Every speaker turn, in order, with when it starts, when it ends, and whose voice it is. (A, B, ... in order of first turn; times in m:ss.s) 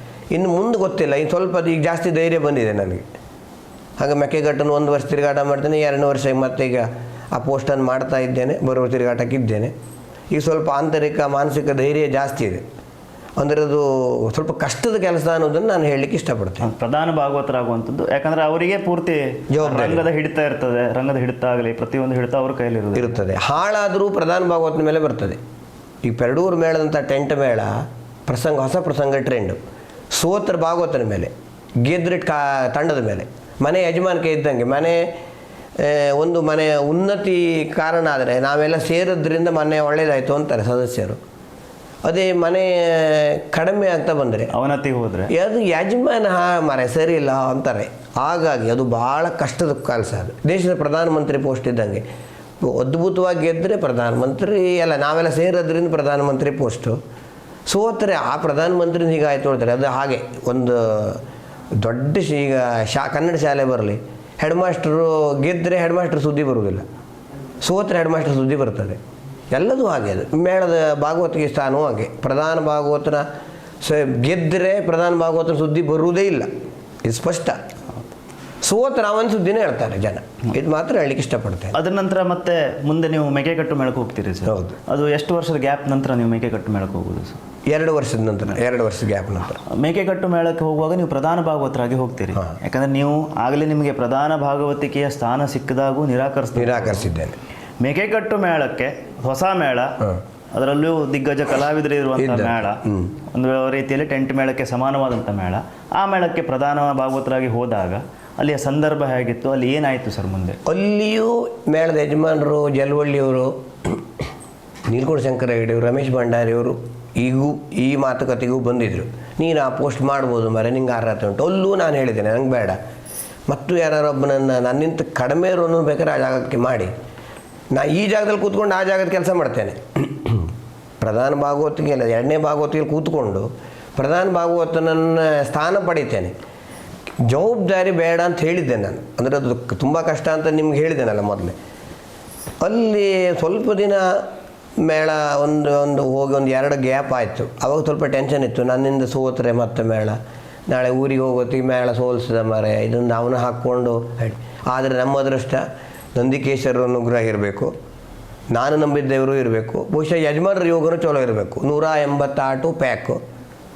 0:00.3-0:03.0 A
0:04.0-0:09.7 A
0:10.3-0:12.6 A
0:13.4-0:16.7 A
0:16.6-0:23.2 B
0:19.5-0:20.1 A
0:22.9-0:25.4 A
0:26.0-0:29.6 A
0:30.1-0:31.3 A
0:31.8-0:35.1 A
0:35.8-0:41.2 A
0:42.0-0:44.5 A
0:44.5-0:45.3 B
0:45.3-0:52.0 A
0:52.6-0:57.0 A
0:57.7-1:01.2 A
1:01.8-1:06.9 A
1:07.6-1:09.0 A
1:09.5-1:13.3 A
1:13.8-1:16.5 A
1:17.0-1:17.6 A
1:18.6-1:21.8 A
1:21.7-1:27.4 B
1:24.4-1:24.8 A
1:27.6-1:29.6 A
1:29.6-1:37.1 B
1:36.6-1:37.4 A
1:37.8-1:40.0 B
1:40.5-1:50.6 B
1:42.2-1:43.1 A
1:50.6-1:54.1 A
1:54.9-2:02.8 A
2:03.5-2:06.9 A
2:07.7-2:16.3 A
2:17.2-2:21.6 A
2:22.6-2:24.3 A
2:24.8-2:35.6 A
2:36.2-2:37.7 A
2:38.5-2:43.2 A